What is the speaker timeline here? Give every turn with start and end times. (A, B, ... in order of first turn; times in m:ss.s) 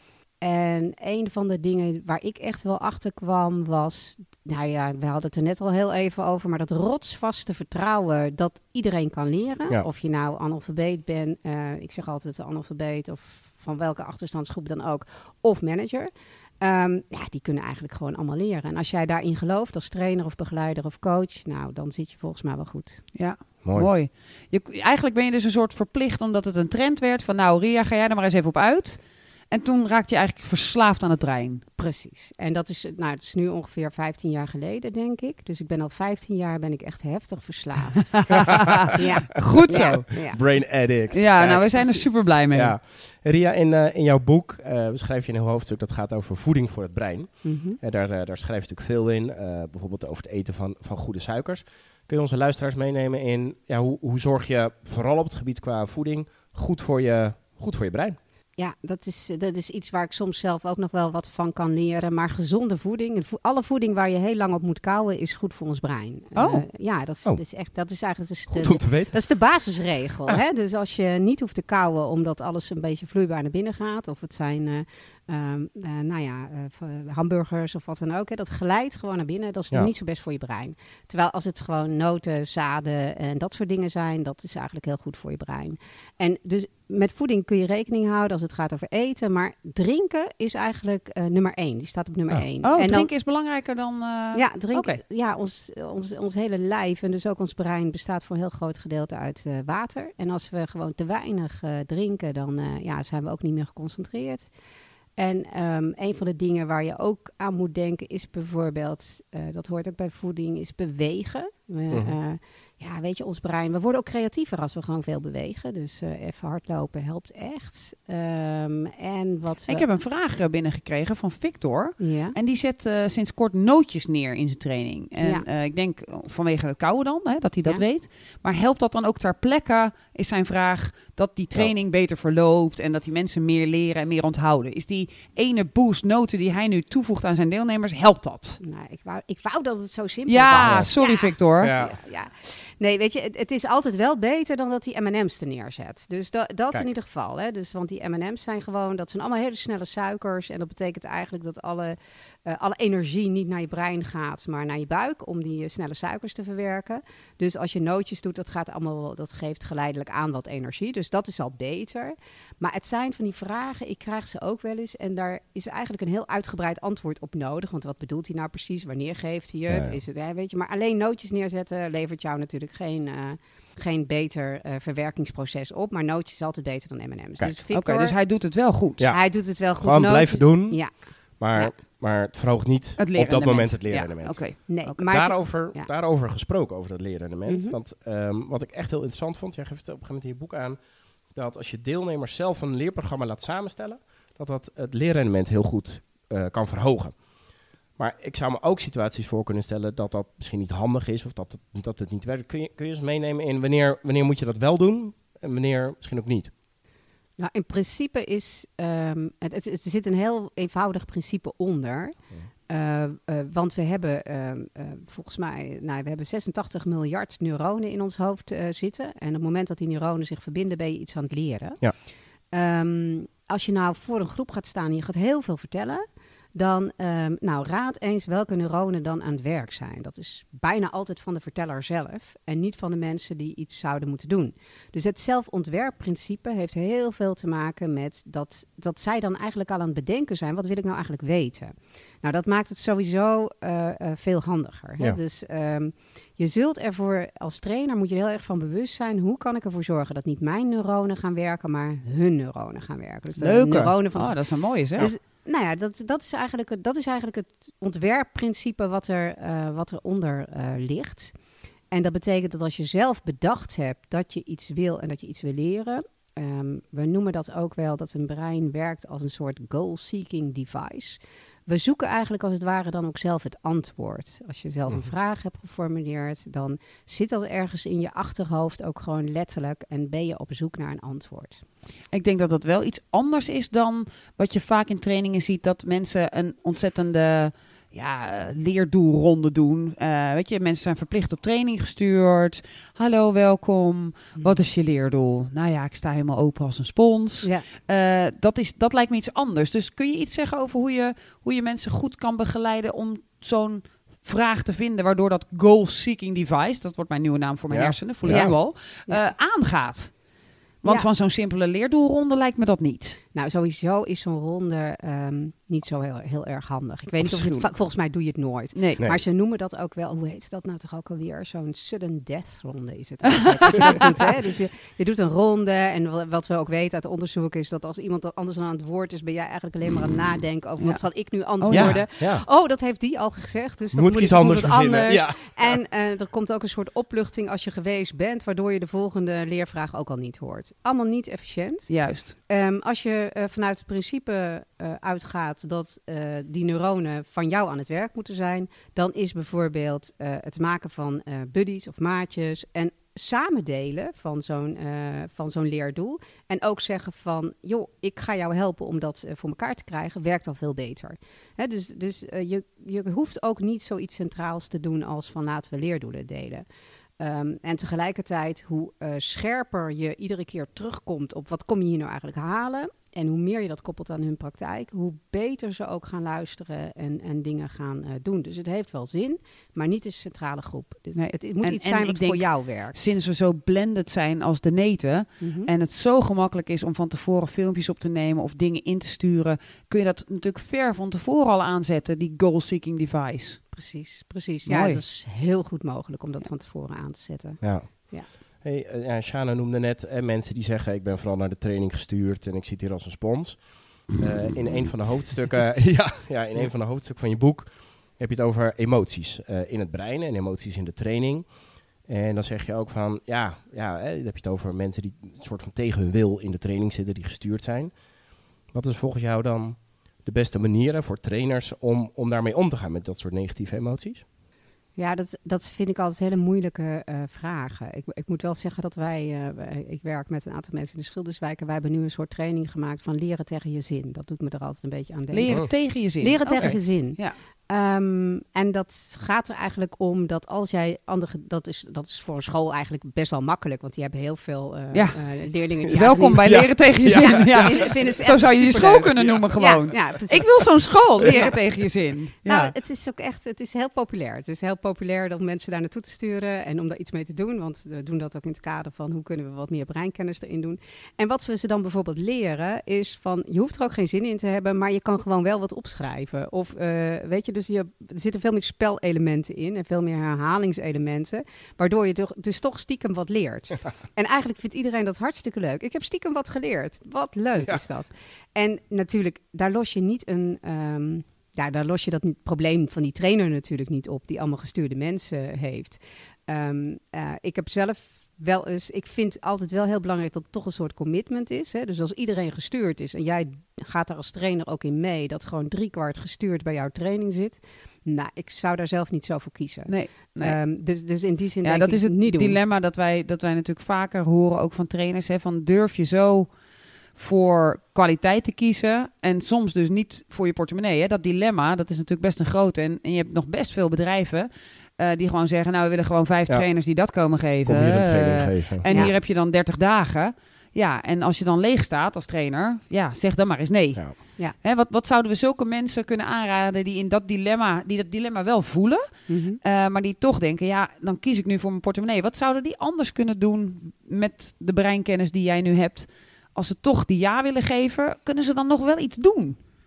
0:00.4-0:23.0 A
0:23.1-0:31.6 B
0:23.6-0:23.9 C
0:31.8-0:38.4 A
0:38.9-0:40.4 A
0:39.3-0:40.2 B
0:39.5-0:58.2 C
0:41.1-0:42.7 B
0:47.4-0:47.8 A
0:58.6-1:33.1 A
1:06.3-1:06.6 B
1:08.5-1:09.2 C
1:32.6-1:35.0 B
1:34.3-1:44.5 A
1:45.2-1:59.8 A
1:51.9-1:52.2 C
1:59.7-2:18.6 B
2:02.0-2:02.4 A
2:18.6-2:58.2 A
2:20.3-2:21.7 B
2:20.6-2:20.9 C
2:21.6-2:22.0 C
2:49.7-2:50.0 C
2:57.7-2:59.0 B
2:59.0-3:17.2 C
2:59.1-3:01.7 A
3:03.0-3:05.0 B
3:04.7-3:05.9 A
3:07.5-3:07.7 A
3:18.0-3:26.5 C
3:27.4-4:21.3 A
4:13.4-4:15.1 B
4:21.9-4:41.6 A
4:42.1-5:10.2 B
4:57.4-4:57.7 A
5:07.7-5:08.6 C
5:08.3-5:09.2 A
5:10.8-5:13.2 B
5:13.3-6:06.6 A
5:17.2-5:17.7 B
5:18.7-5:19.0 B
5:23.3-5:24.2 B
5:30.8-5:32.0 B
5:31.7-5:32.4 C
5:33.9-5:35.8 C
5:41.9-5:42.4 B
6:07.2-6:23.1 A
6:21.1-6:33.6 B
6:25.4-6:25.7 A
6:33.7-6:38.3 A
6:34.6-6:35.0 B
6:37.6-6:51.5 C
6:52.0-6:57.9 C
6:58.7-7:04.2 C
7:05.0-7:30.6 A
7:15.3-7:17.4 B
7:24.9-7:25.2 B
7:25.8-7:32.7 B
7:26.4-7:27.9 C
7:31.2-7:31.6 A
7:32.4-8:22.6 A
8:19.9-8:20.6 B
8:21.6-8:26.5 B
8:27.2-8:59.6 B
8:37.6-8:39.1 C
8:38.9-8:39.1 A
8:49.3-8:49.6 A